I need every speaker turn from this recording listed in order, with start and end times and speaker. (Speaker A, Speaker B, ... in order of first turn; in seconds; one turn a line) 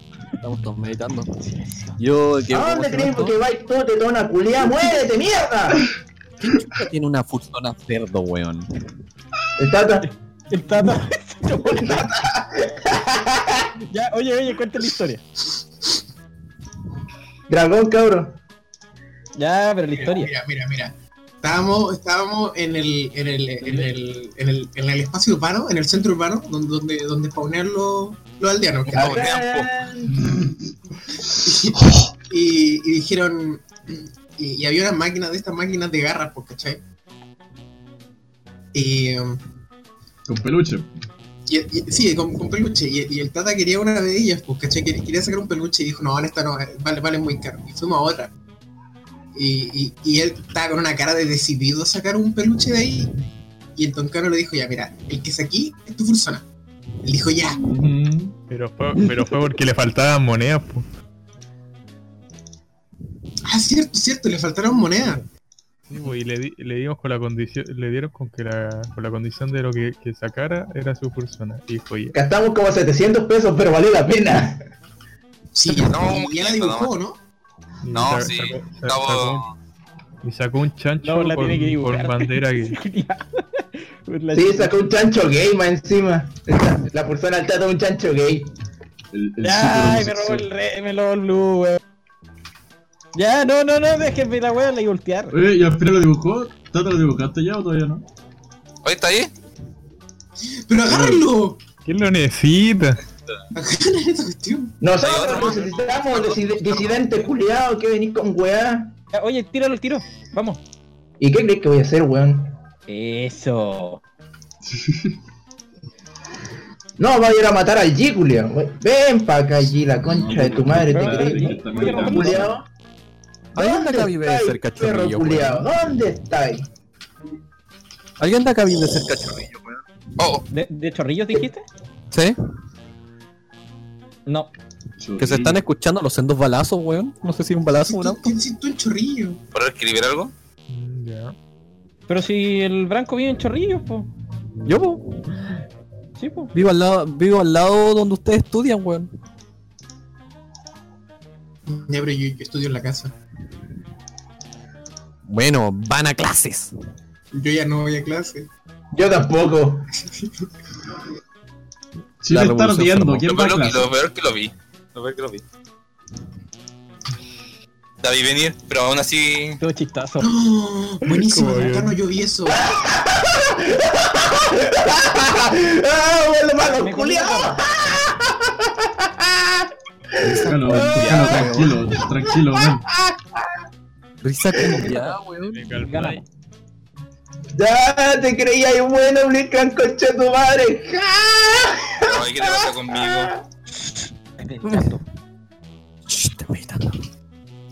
Speaker A: 0.4-1.3
Speaker B: 1.4-2.0
Speaker A: 2.0-3.4
Speaker C: 2.5-5.9
Speaker A: 6.5-8.7
Speaker C: 9.6-10.1
Speaker B: 10.0-12.1
Speaker C: 11.7-13.7
Speaker B: 13.9-15.2
Speaker C: 17.5-18.4
Speaker B: 19.4-20.3
Speaker D: 19.9-29.2
Speaker B: 23.6-23.9
Speaker E: 28.9-29.7
Speaker C: 28.9-30.3
Speaker D: 31.3-36.8
Speaker D: 38.7-39.4
Speaker F: 40.3-40.9
Speaker D: 41.5-48.3
Speaker D: 49.3-53.1
Speaker D: 53.8-56.4
Speaker D: 57.0-57.7
Speaker F: 57.7-58.4
Speaker G: 58.5-60.9
Speaker D: 63.5-65.2
Speaker G: 65.9-72.2
Speaker C: 72.1-74.6
Speaker D: 75.5-77.2
Speaker E: 75.7-77.0
Speaker G: 77.8-79.5
Speaker E: 77.9-79.5
Speaker G: 80.2-82.8
Speaker B: 81.0-84.8
Speaker C: 84.3-88.5
Speaker F: 89.1-90.5
Speaker B: 89.4-91.8
Speaker B: 93.2-95.4
Speaker F: 95.3-98.0
Speaker E: 98.8-99.3
Speaker D: 100.7-101.6
Speaker F: 100.8-101.3
Speaker G: 101.8-103.0
Speaker D: 103.5-104.8
Speaker C: 104.8-108.9
Speaker E: 105.0-107.3
Speaker B: 109.1-110.6
Speaker C: 111.2-112.5
Speaker B: 112.9-114.0
Speaker F: 114.7-115.2
Speaker C: 117.0-122.7
Speaker F: 120.0-122.5
Speaker B: 120.9-122.5
Speaker A: 123.5-125.7
Speaker C: 123.6-126.7
Speaker A: 128.2-129.8
Speaker E: 130.2-130.5
Speaker B: 130.5-131.7
Speaker A: 132.1-132.4
Speaker B: 134.3-134.5
Speaker F: 135.0-135.6
Speaker A: 135.2-138.2
Speaker D: 137.8-139.4
Speaker E: 139.5-140.3
Speaker G: 140.7-141.3
Speaker B: 142.1-144.1
Speaker A: 144.7-145.3
Speaker B: 146.2-146.5
Speaker A: 146.5-149.1
Speaker D: 151.7-153.1
Speaker A: 155.3-156.7
Speaker D: 157.3-158.5
Speaker C: 158.9-159.9
Speaker F: 162.2-163.9
Speaker A: 162.3-163.3
Speaker E: 163.3-165.4
Speaker E: 168.0-169.6
Speaker B: 169.6-170.3
Speaker D: 170.2-172.6
Speaker G: 171.1-172.0
Speaker C: 172.5-183.4
Speaker B: 176.6-177.6
Speaker F: 180.2-182.9
Speaker D: 180.3-181.1
Speaker A: 180.8-181.7
Speaker A: 184.2-185.7
Speaker C: 184.6-184.9
Speaker G: 185.5-186.2
Speaker B: 185.8-186.2
Speaker C: 187.6-193.4
Speaker E: 192.0-193.3
Speaker B: 194.4-195.0
Speaker A: 194.6-195.0
Speaker A: 196.1-197.0